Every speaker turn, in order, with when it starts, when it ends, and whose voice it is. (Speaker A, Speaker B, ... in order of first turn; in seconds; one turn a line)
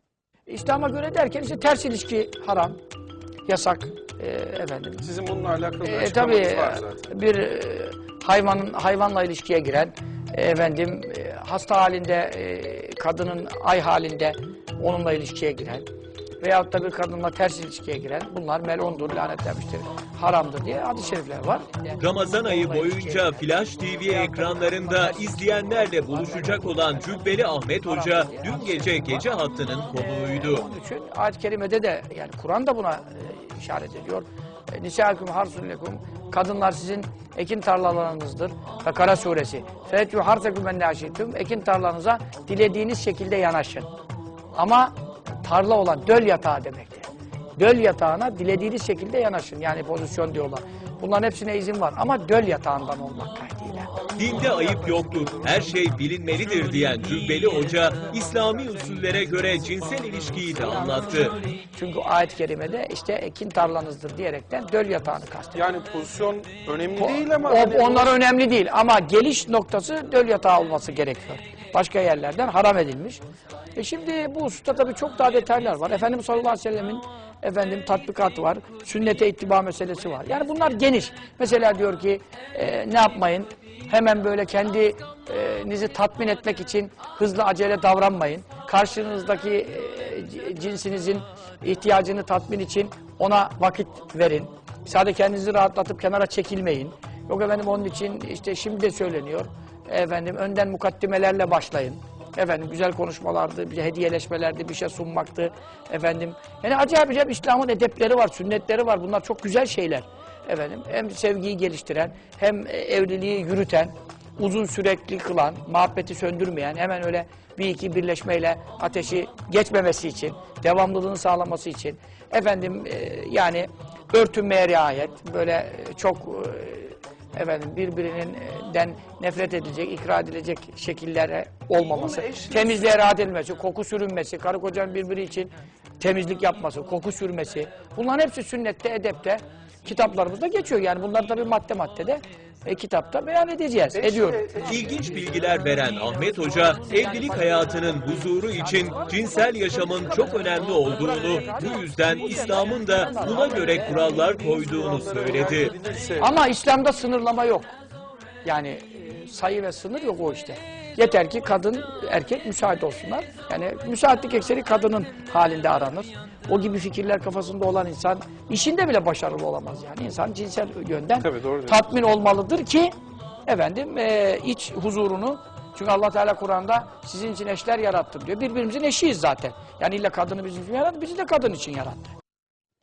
Speaker A: 0.5-2.8
Speaker A: 3.5-5.0
Speaker B: 5.0-7.0
Speaker A: 5.8-15.8
Speaker A: 16.4-23.5
Speaker C: 22.0-30.6
Speaker A: 24.0-29.3
Speaker A: 29.9-43.9
Speaker A: 44.5-53.9
Speaker C: 54.2-61.4
Speaker B: 54.4-54.8
Speaker A: 61.7-65.7
Speaker B: 65.5-68.1
Speaker A: 67.0-73.2
Speaker A: 73.8-144.7
Speaker B: 131.9-132.9
Speaker B: 143.9-145.2
Speaker C: 144.7-155.7
Speaker A: 146.7-154.7
Speaker B: 154.5-156.3
Speaker A: 156.2-157.7
Speaker A: 158.4-172.9
Speaker B: 171.2-171.7
Speaker A: 173.4-182.1